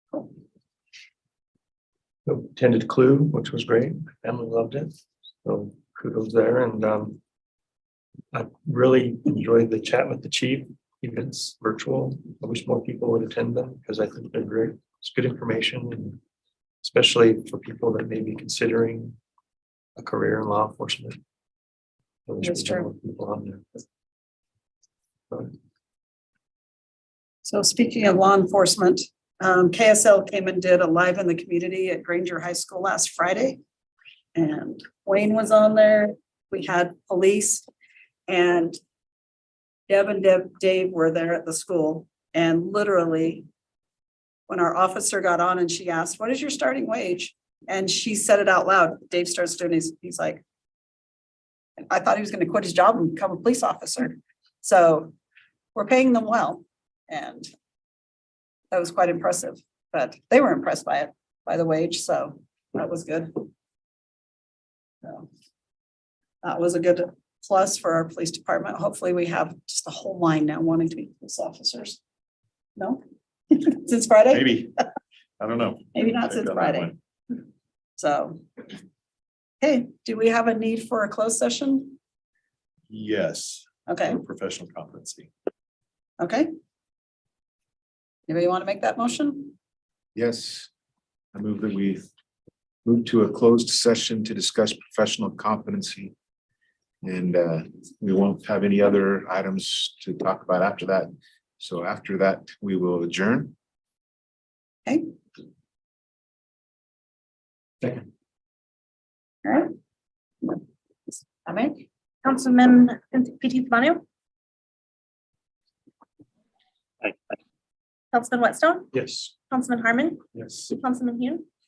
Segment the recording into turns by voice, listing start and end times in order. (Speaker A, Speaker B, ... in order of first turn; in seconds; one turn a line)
Speaker A: 2.3-7.2
Speaker A: 8.3-16.2
Speaker A: 16.8-19.2
Speaker A: 20.0-21.2
Speaker A: 22.3-23.6
Speaker B: 22.4-22.9
Speaker B: 27.4-33.6
Speaker B: 34.4-37.7
Speaker B: 38.3-38.8
Speaker B: 39.9-43.5
Speaker B: 44.5-50.4
Speaker B: 51.8-55.1
Speaker B: 55.8-57.5
Speaker B: 58.7-63.5
Speaker B: 66.4-72.0
Speaker B: 72.8-74.7
Speaker C: 74.3-74.7
Speaker C: 75.4-77.0
Speaker B: 75.9-76.9
Speaker B: 78.0-78.4
Speaker B: 79.6-82.0
Speaker C: 82.9-85.3
Speaker B: 83.9-84.2
Speaker B: 86.2-86.5
Speaker B: 88.3-89.5
Speaker D: 90.2-90.7
Speaker D: 91.3-92.1
Speaker D: 92.8-96.1
Speaker D: 97.0-103.5
Speaker B: 109.5-109.7
Speaker B: 111.5-111.8
Speaker E: 112.2-114.0
Speaker E: 118.1-118.9
Speaker A: 118.9-119.3
Speaker E: 119.5-120.2
Speaker E: 120.8-121.5